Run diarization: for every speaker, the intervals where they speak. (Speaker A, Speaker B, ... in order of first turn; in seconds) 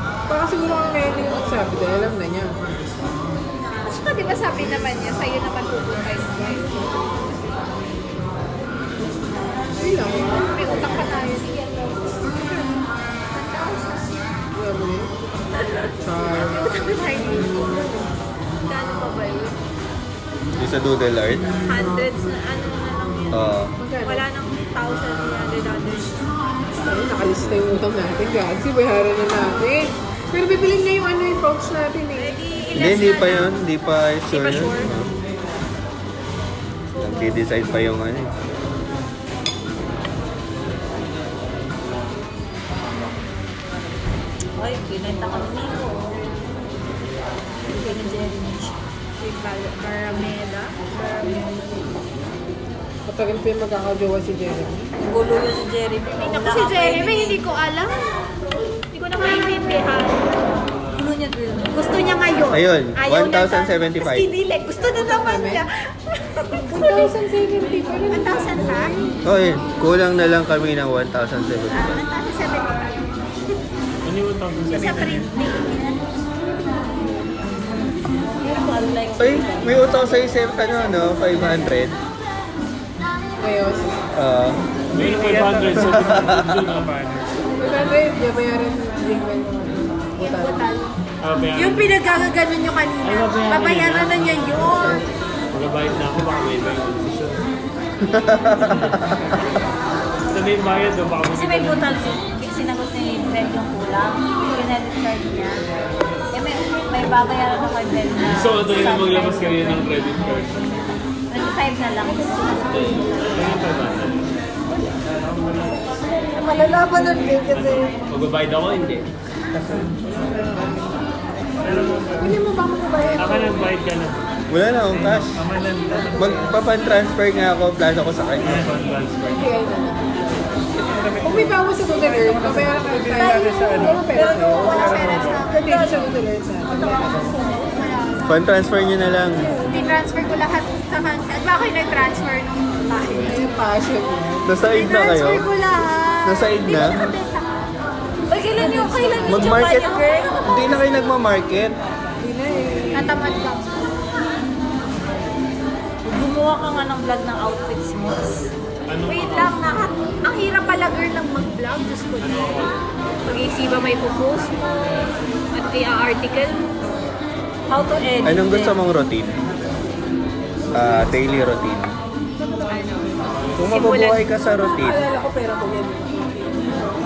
Speaker A: 0.3-2.6, 9.8-10.8, 14.5-15.1, 16.0-16.8, 23.8-24.2, 26.8-32.4, 47.7-48.3, 53.1-54.9, 64.9-65.6, 66.6-69.0, 83.4-84.0, 87.6-90.7, 120.3-120.7, 122.2-123.7, 125.9-126.3, 129.3-130.6, 131.2-137.2, 143.0-144.5, 148.5-149.6, 152.2-153.4, 170.8-171.3, 172.4-172.9, 174.8-176.8
Speaker B: 3.8-7.5, 10.3-14.2, 15.6-15.9, 16.4-18.1, 18.6-19.6, 21.6-23.5, 24.0-26.4, 32.1-33.6, 34.3-34.9, 49.2-51.7, 56.1-58.2, 58.9-60.3, 61.7-67.1, 68.1-69.0, 71.7-73.5, 74.7-76.0, 90.2-90.9, 91.5-95.1, 134.1-136.1, 137.2-138.4, 139.6-143.5, 144.7-147.6, 149.5-150.5, 152.9-153.9, 159.1-162.7, 163.2-166.7, 172.7-174.2
Speaker C: 20.6-21.5, 23.3-23.7, 27.4-27.6, 32.7-35.1, 37.0-38.3, 62.5-64.3, 69.2-72.0, 79.2-81.9, 84.1-84.6, 85.8-86.6, 98.0-99.3, 124.5-125.4, 126.2-128.7, 138.2-139.5, 144.4-145.4, 146.2-147.1, 149.3-151.8, 168.2-169.3, 170.7-171.9, 173.6-175.1
Speaker D: 44.6-46.2, 47.7-48.7, 55.0-57.4, 60.9-61.8, 75.7-76.0, 78.3-80.2, 101.3-105.6, 106.3-109.9, 111.3-113.6, 116.3-117.9, 134.1-136.0, 136.7-137.7, 148.3-150.6, 156.0-158.5, 167.7-168.8
Speaker E: 74.0-75.2, 84.9-86.9, 91.2-92.0, 93.0-95.0, 95.5-97.5, 100.3-102.1, 108.3-110.9, 112.7-114.3, 115.1-115.8, 117.5-119.1, 123.2-124.2, 128.4-129.4, 158.9-159.6, 162.2-162.8
Speaker F: 74.8-75.3, 84.9-87.4, 119.5-120.3, 121.6-122.4, 124.9-126.5, 128.4-129.5, 130.7-134.1, 134.6-135.4